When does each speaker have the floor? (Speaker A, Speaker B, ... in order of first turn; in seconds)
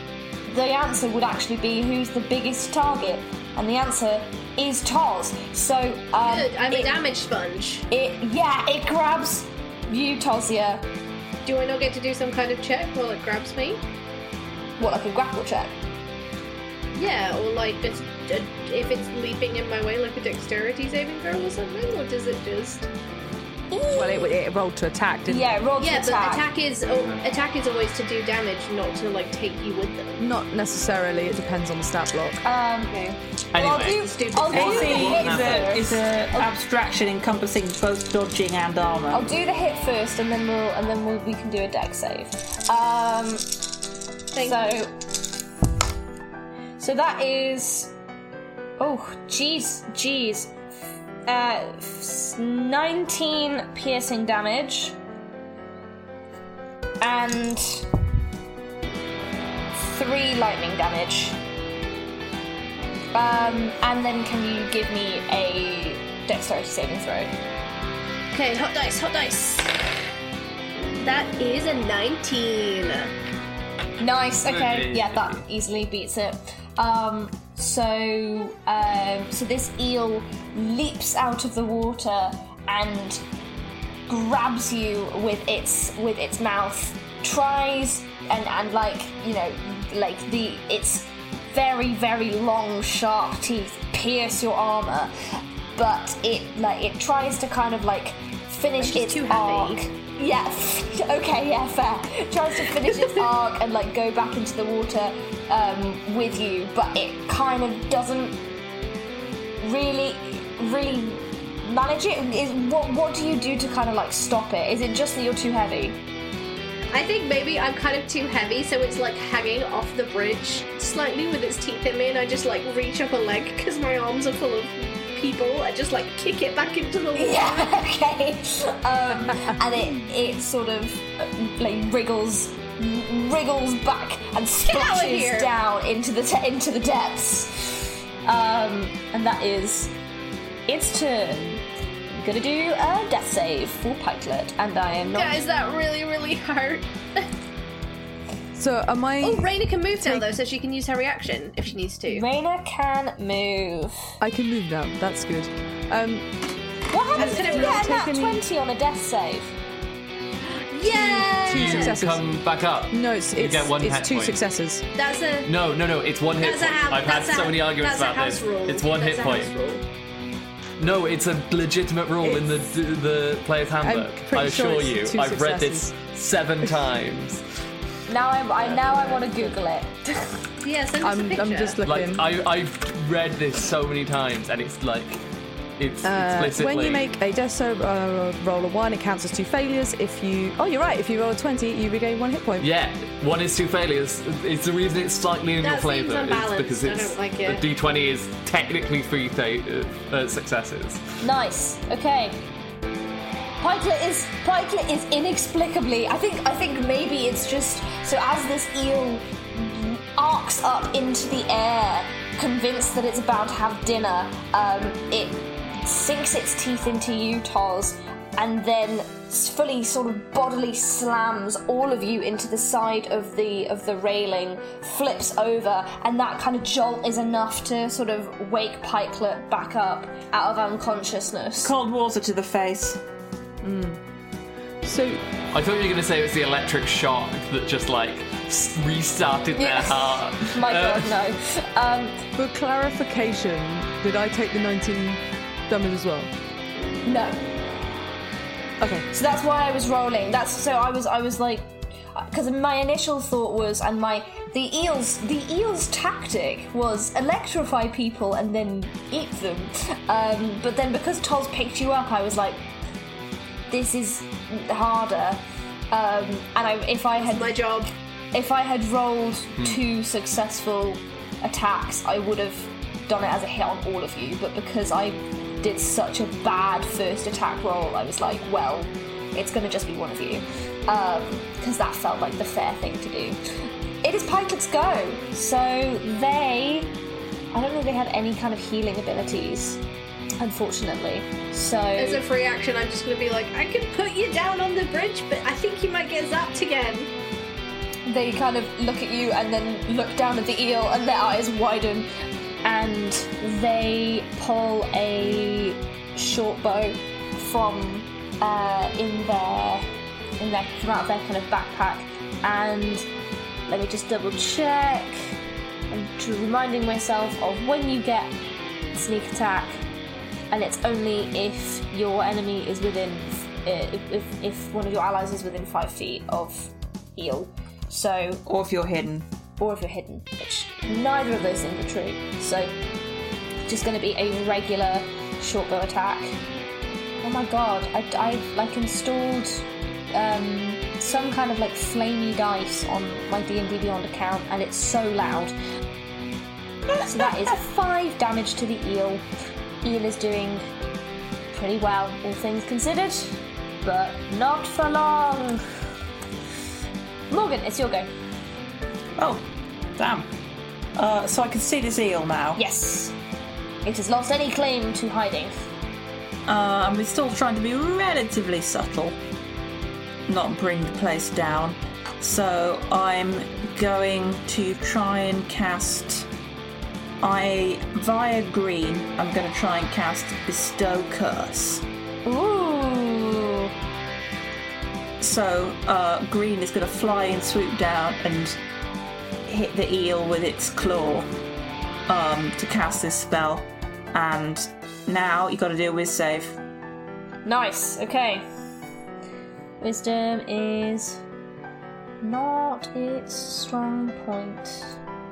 Speaker A: 0.5-7.0, 7.9-10.9, 14.8-15.8, 23.7-24.3, 25.3-26.5, 32.4-33.0, 33.5-36.5, 39.1-43.5, 44.4-44.9, 46.8-47.9, 48.8-50.5, 51.3-55.0, 57.0-57.9, 59.8-61.4, 63.1-67.3, 74.0-83.2, 84.1-108.4, 109.6-116.0, 127.2-139.9, 140.7-145.4, 152.1-154.0, 156.9-159.5, 178.1-180.4, 201.2-202.4, 203.6-231.7, 239.6-242.2, 247.1-247.4, 249.1-262.6, 263.7-267.7, 268.3-283.4, 284.0-286.9, 287.5-289.8, 290.4-292.2, 298.1-302.1, 302.6-309.9, 310.4-313.1, 313.7-315.4, 315.9-318.4, 318.9-319.8, 320.5-328.4, 329.6-332.8, 333.7-336.4, 337.2-345.6, 347.0-349.2, 349.8-350.7, 351.5-355.6, 357.3-358.1, 362.6-363.1, 363.9-365.6, 382.3-383.7, 397.5-398.5, 399.8-401.2, 402.2-404.9
Speaker B: 6.2-7.8, 11.4-13.8, 16.9-22.9, 25.8-30.2, 32.9-35.1, 44.3-44.6, 68.3-69.7, 71.0-73.1, 98.8-99.8, 116.9-127.8, 134.6-135.5, 145.1-147.3, 149.2-152.3, 157.2-158.0, 160.7-162.0, 165.0-165.5, 166.4-169.8, 180.6-181.8, 195.6-197.7, 267.2-267.9, 292.0-297.1
Speaker C: 23.9-25.5, 30.2-32.4, 148.5-150.3, 154.2-156.3, 157.2-158.4, 160.9-162.3, 162.9-164.8, 172.2-172.7, 173.8-175.9, 181.0-182.2, 186.0-192.7, 233.6-234.0, 234.8-235.2, 242.4-246.3, 248.8-249.1
Speaker D: 33.5-35.8, 74.4-75.4, 161.5-164.4, 165.4-169.5, 170.8-177.4, 181.8-185.2, 185.8-187.1, 192.6-201.1, 235.5-241.1
Speaker E: 34.5-39.3, 231.6-233.0, 328.5-329.2, 346.9-347.6, 359.2-359.4, 360.0-360.3, 361.0-362.6, 366.5-369.2, 370.3-376.3, 377.2-381.8, 385.2-388.6, 389.5-391.3, 392.1-396.6